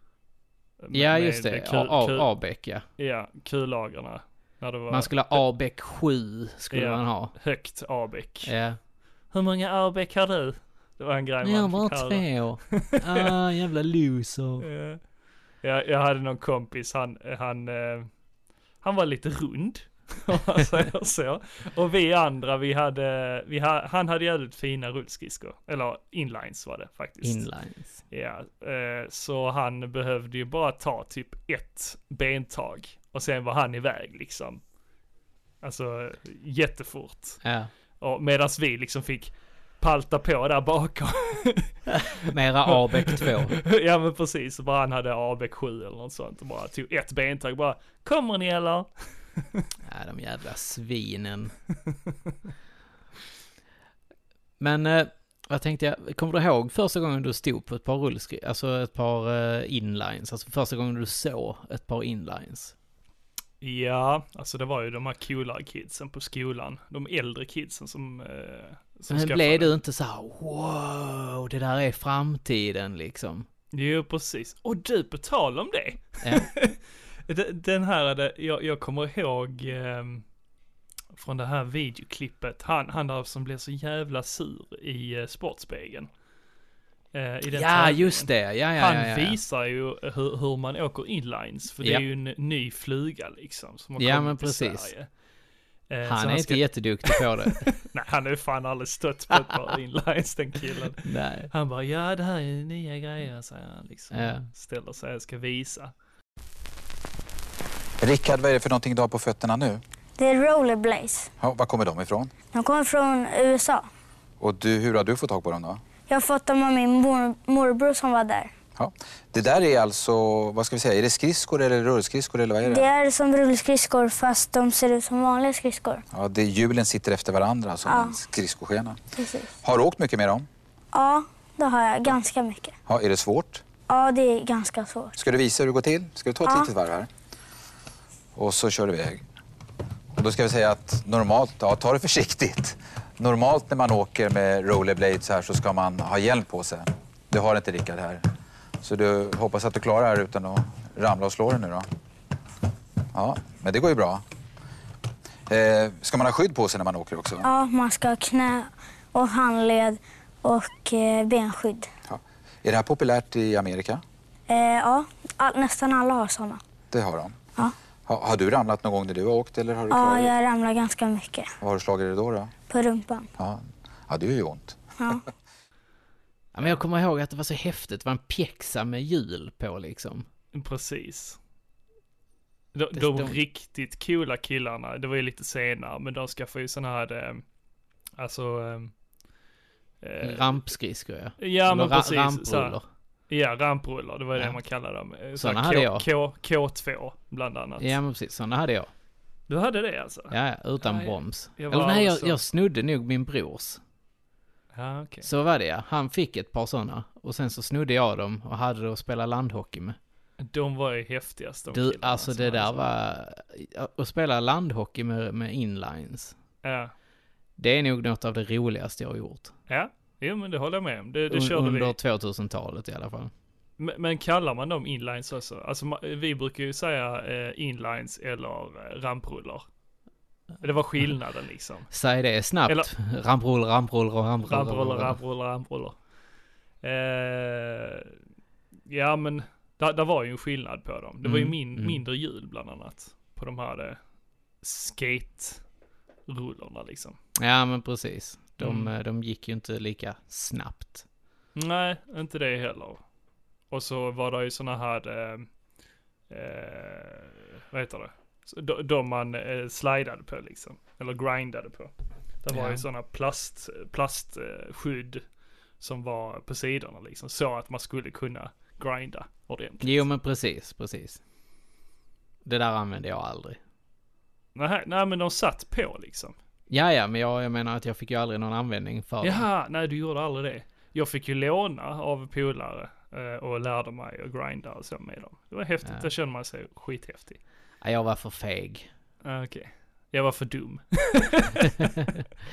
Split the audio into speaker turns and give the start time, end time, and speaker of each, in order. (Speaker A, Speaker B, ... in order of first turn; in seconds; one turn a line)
Speaker A: 0.8-2.3
Speaker B: 0.9-2.8
Speaker A: 3.0-5.4
Speaker B: 4.9-7.3
Speaker A: 6.7-8.5
Speaker B: 8.4-8.8
Speaker A: 9.3-13.3
Speaker B: 11.4-14.7
Speaker A: 14.6-15.0
Speaker A: 15.6-18.1
Speaker A: 18.8-27.5
Speaker B: 27.2-28.0
Speaker A: 28.1-34.6
Speaker A: 35.6-37.4
Speaker B: 37.4-37.7
Speaker A: 38.0-41.7
Speaker B: 41.9-43.6
Speaker A: 42.7-49.6
Speaker B: 49.8-51.5
Speaker B: 54.6-62.7
Speaker A: 63.6-69.7
Speaker B: 69.1-73.5
Speaker A: 73.7-80.2
Speaker B: 76.2-76.5
Speaker A: 81.1-86.1
Speaker A: 87.1-95.1
Speaker B: 87.5-89.4
Speaker B: 94.0-94.9
Speaker A: 95.9-105.9
Speaker B: 96.0-97.8
Speaker B: 101.0-101.5
Speaker B: 104.1-104.5
Speaker C: 108.0-109.8
Speaker D: 110.2-111.3
Speaker C: 111.4-112.3
Speaker D: 112.5-113.9
Speaker C: 114.4-115.8
Speaker D: 116.1-118.5
Speaker C: 118.8-122.8
Speaker D: 122.6-126.0
Speaker C: 126.1-129.0
Speaker D: 127.9-128.2
Speaker D: 129.2-129.6
Speaker C: 129.6-130.5
Speaker D: 130.9-132.7
Speaker C: 132.9-133.6
Speaker D: 133.9-135.1
Speaker C: 135.2-137.1
Speaker D: 136.4-136.7
Speaker C: 138.3-139.2
Speaker C: 140.1-148.2
Speaker C: 148.8-151.8
Speaker C: 153.1-154.2
Speaker C: 155.5-157.4
Speaker D: 157.4-161.9
Speaker C: 162.1-164.0
Speaker D: 164.5-166.6
Speaker C: 166.9-167.4
Speaker C: 168.1-170.3
Speaker D: 169.9-171.5
Speaker C: 171.6-172.5
Speaker D: 172.7-173.3
Speaker C: 173.4-175.2
Speaker D: 175.0-175.2
Speaker B: 176.5-180.2
Speaker A: 180.5-181.4
Speaker A: 182.7-187.4
Speaker B: 182.9-183.4
Speaker A: 188.2-188.9
Speaker A: 190.0-190.6
Speaker B: 190.2-192.8
Speaker A: 191.4-192.8
Speaker A: 193.3-198.0
Speaker B: 195.4-196.1
Speaker B: 197.8-198.9
Speaker A: 199.5-202.4
Speaker B: 200.3-203.8
Speaker A: 204.7-205.3
Speaker B: 205.2-210.0
Speaker A: 210.4-212.9
Speaker B: 211.7-216.3
Speaker A: 216.6-216.9
Speaker B: 217.6-219.5
Speaker A: 219.7-221.9
Speaker B: 221.3-223.3
Speaker A: 223.8-229.6
Speaker A: 230.6-231.9
Speaker B: 231.9-235.2
Speaker A: 234.4-236.0
Speaker A: 236.8-238.2
Speaker A: 238.9-244.0
Speaker B: 241.2-242.0
Speaker A: 244.6-245.6
Speaker A: 246.3-247.2
Speaker B: 247.4-251.0
Speaker A: 248.6-248.9
Speaker A: 251.5-253.0
Speaker A: 253.7-255.5
Speaker A: 256.3-265.2
Speaker B: 262.5-262.9
Speaker A: 265.8-270.1
Speaker B: 269.8-271.2
Speaker B: 272.4-273.6
Speaker A: 274.5-276.4
Speaker B: 276.7-279.4
Speaker A: 279.2-287.4
Speaker B: 287.8-288.9
Speaker A: 289.2-292.1
Speaker B: 291.6-292.2